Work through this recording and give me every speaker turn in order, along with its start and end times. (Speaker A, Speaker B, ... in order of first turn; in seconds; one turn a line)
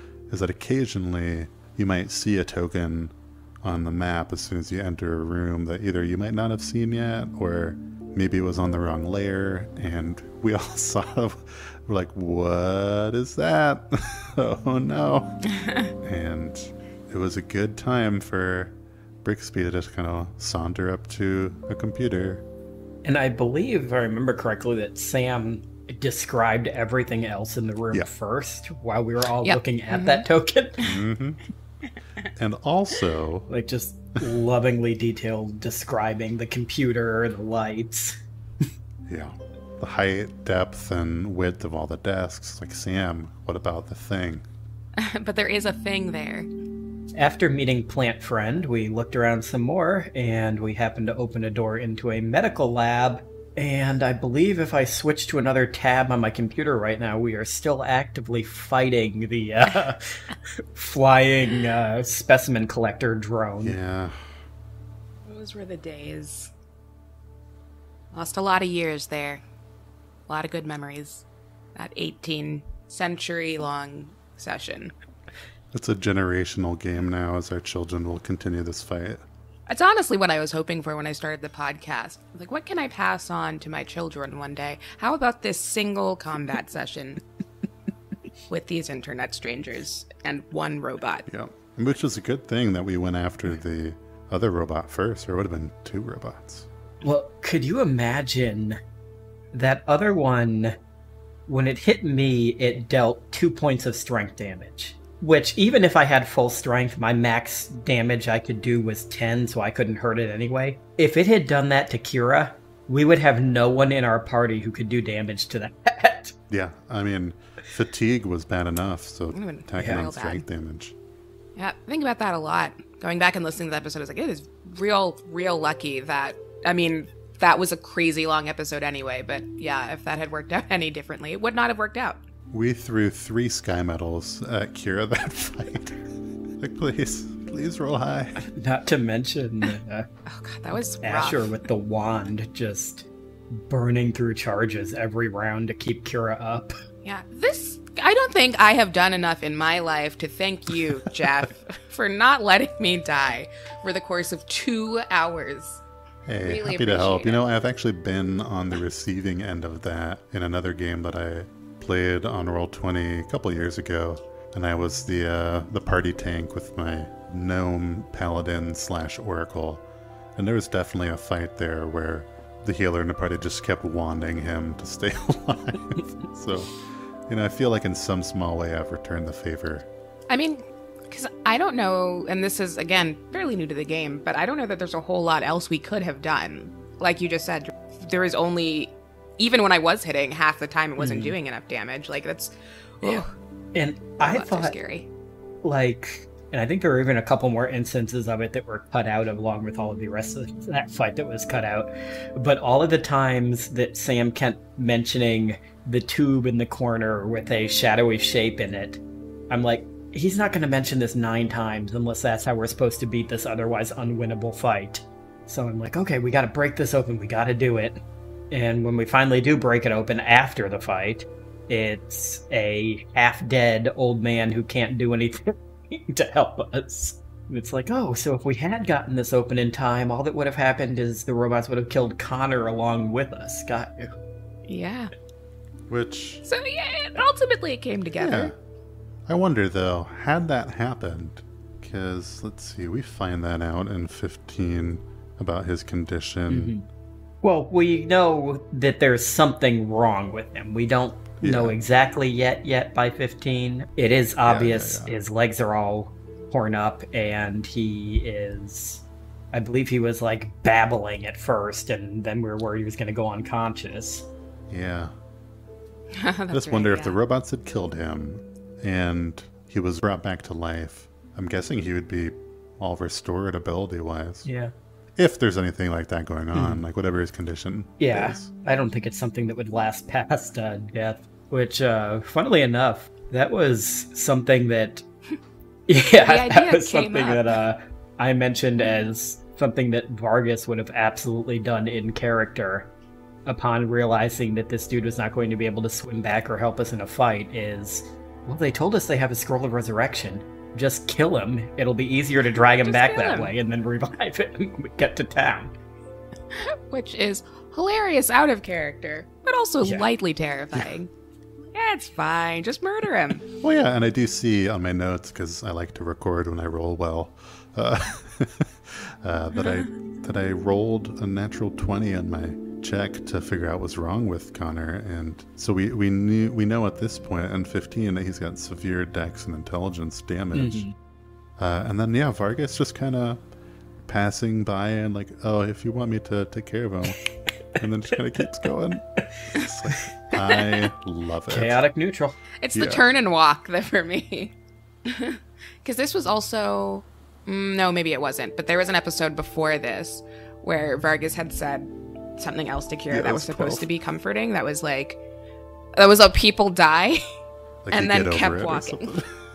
Speaker A: 0.3-15.4
Speaker B: 15.6-15.9
Speaker A: 16.0-22.4
Speaker C: 23.0-30.8
Speaker B: 29.4-30.3
Speaker A: 30.8-31.4
Speaker A: 32.4-33.5
Speaker C: 33.5-38.2
Speaker A: 39.1-44.5
Speaker B: 45.0-46.5
Speaker C: 47.1-63.8
Speaker A: 63.6-64.3
Speaker B: 65.3-66.5
Speaker B: 68.1-69.4
Speaker B: 70.3-74.9
Speaker A: 75.7-79.2
Speaker B: 79.7-87.2
Speaker B: 88.5-91.3
Speaker A: 91.3-96.7
Speaker C: 97.0-98.8
Speaker C: 99.5-100.8
Speaker C: 101.5-116.3
Speaker A: 116.5-121.0
Speaker B: 119.3-120.4
Speaker C: 119.8-120.0
Speaker B: 121.6-132.2
Speaker A: 132.5-136.0
Speaker A: 136.6-138.4
Speaker C: 138.4-140.1
Speaker B: 140.3-141.5
Speaker C: 141.0-146.7
Speaker B: 147.0-155.8
Speaker A: 156.3-169.8
Speaker B: 156.4-157.4
Speaker A: 170.4-179.9
Speaker B: 180.3-193.3
Speaker C: 191.0-191.3
Speaker C: 193.7-194.8
Speaker B: 194.2-195.1
Speaker C: 195.6-234.1
Speaker B: 234.7-235.1
Speaker A: 235.9-236.4
Speaker B: 236.4-238.5
Speaker A: 238.2-238.5
Speaker A: 239.3-246.7
Speaker C: 246.5-246.9
Speaker C: 247.4-264.3
Speaker A: 251.4-251.8
Speaker A: 254.4-255.1
Speaker A: 264.7-265.1
Speaker B: 266.1-267.2
Speaker A: 266.5-274.5
Speaker C: 274.4-274.7
Speaker A: 275.2-278.5
Speaker C: 276.5-276.8
Speaker C: 278.0-285.0
Speaker C: 285.9-292.9
Speaker B: 286.2-287.6
Speaker C: 293.5-305.7
Speaker B: 302.8-303.5
Speaker B: 306.5-311.1
Speaker B: 311.7-313.5
Speaker A: 313.6-330.9
Speaker C: 330.6-330.9
Speaker A: 331.6-333.4
Speaker A: 334.1-337.2
Speaker A: 337.8-341.8
Speaker B: 340.3-340.8
Speaker C: 341.5-342.4
Speaker B: 342.6-344.5
Speaker A: 342.7-343.0
Speaker B: 345.1-355.2
Speaker A: 353.1-353.9
Speaker B: 356.0-357.2
Speaker A: 357.9-359.3
Speaker B: 357.9-359.1